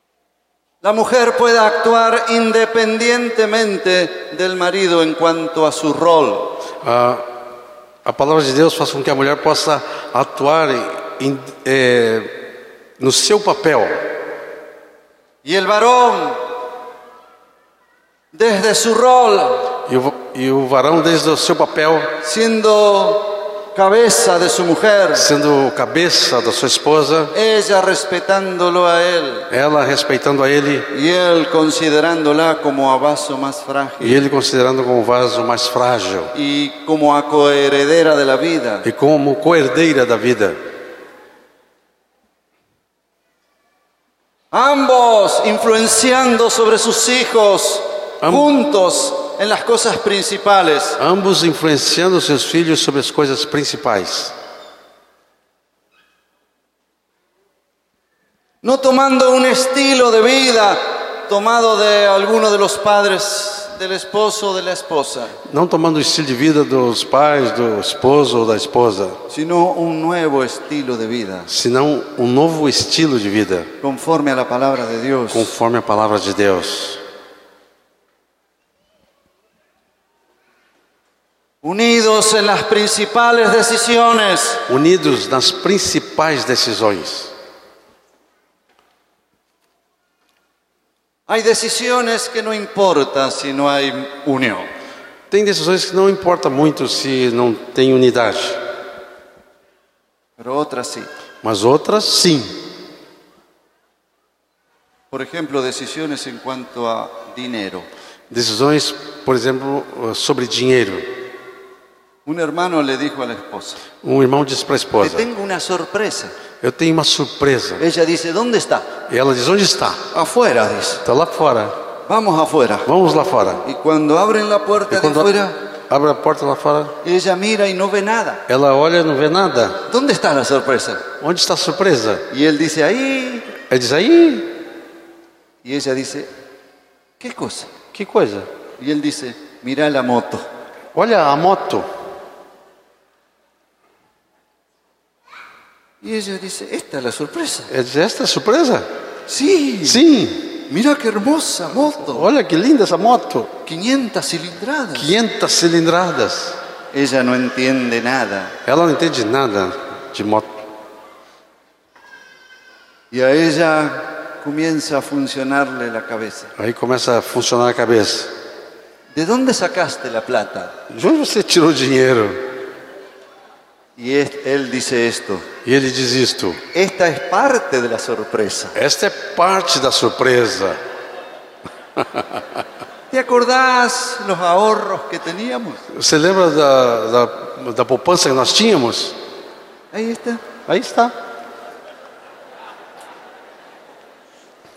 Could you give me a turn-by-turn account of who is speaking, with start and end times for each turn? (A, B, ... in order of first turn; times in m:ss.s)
0:00.8-0:06.6 A
0:06.8-0:07.4 B
0:08.0-0:12.4 B
0:13.0-0:14.1 B
0:15.4-0:16.5 A
0:18.3-0:19.7 A
0:19.8-0:22.2 B
0:22.2-0:25.3 A
0:25.1-0:27.3 B
0:27.3-0:29.5 A
0:29.5-0:30.9 B
0:30.9-0:34.2 A
0:34.0-0:36.3 B
0:36.3-0:38.8 A
0:38.8-0:40.6 B
0:44.5-0:51.0 A
0:48.2-0:48.5 B
0:51.0-0:54.3 B
0:58.6-1:05.4 A
1:05.4-1:09.2 B
1:09.3-1:11.5 A
1:11.5-1:13.7 B
1:13.8-1:15.5 A
1:15.3-1:17.0 B
1:21.6-1:24.6 A
1:24.7-1:27.3 B
1:31.3-1:34.7 A
1:35.3-1:38.6 B
1:40.4-1:41.1 A
1:41.4-1:42.6 B
1:45.1-1:47.9 A
1:48.3-1:51.1 B
1:52.2-1:53.8 A
1:54.0-1:55.3 B
1:55.0-1:56.3 A
1:56.6-1:57.8 B
1:57.8-1:58.9 A
1:59.1-2:00.1 B
2:00.1-2:01.0 A
2:01.0-2:01.8 B
2:02.0-2:02.9 A
2:02.8-2:03.6 B
2:03.6-2:05.6 A
2:04.9-2:05.3 B
2:05.9-2:07.0 B
2:07.0-2:08.4 A
2:08.5-2:09.8 B
2:09.9-2:11.0 A
2:11.2-2:12.3 B
2:12.3-2:13.5 A
2:13.6-2:14.5 B
2:15.6-2:16.3 A
2:17.2-2:17.7 A
2:17.9-2:18.5 B
2:18.8-2:20.5 A
2:20.9-2:21.9 B
2:26.0-2:27.7 A
2:27.7-2:28.9 B
2:29.3-2:30.0 A
2:29.8-2:30.6 B
2:30.7-2:32.3 A
2:31.8-2:33.5 B
2:33.6-2:35.1 A
2:35.0-2:36.6 B
2:36.9-2:38.5 A
2:38.6-2:40.6 B
2:43.1-2:46.5 A
2:46.6-2:48.4 B
2:49.1-2:50.8 A
2:50.9-2:52.5 B
2:54.0-2:55.4 A
2:55.6-2:56.6 B
2:56.7-2:58.8 A
2:58.7-3:00.8 B
3:02.0-3:02.4 B
3:03.1-3:05.8 A
3:05.9-3:09.2 B
3:09.9-3:10.5 A
3:10.7-3:11.2 B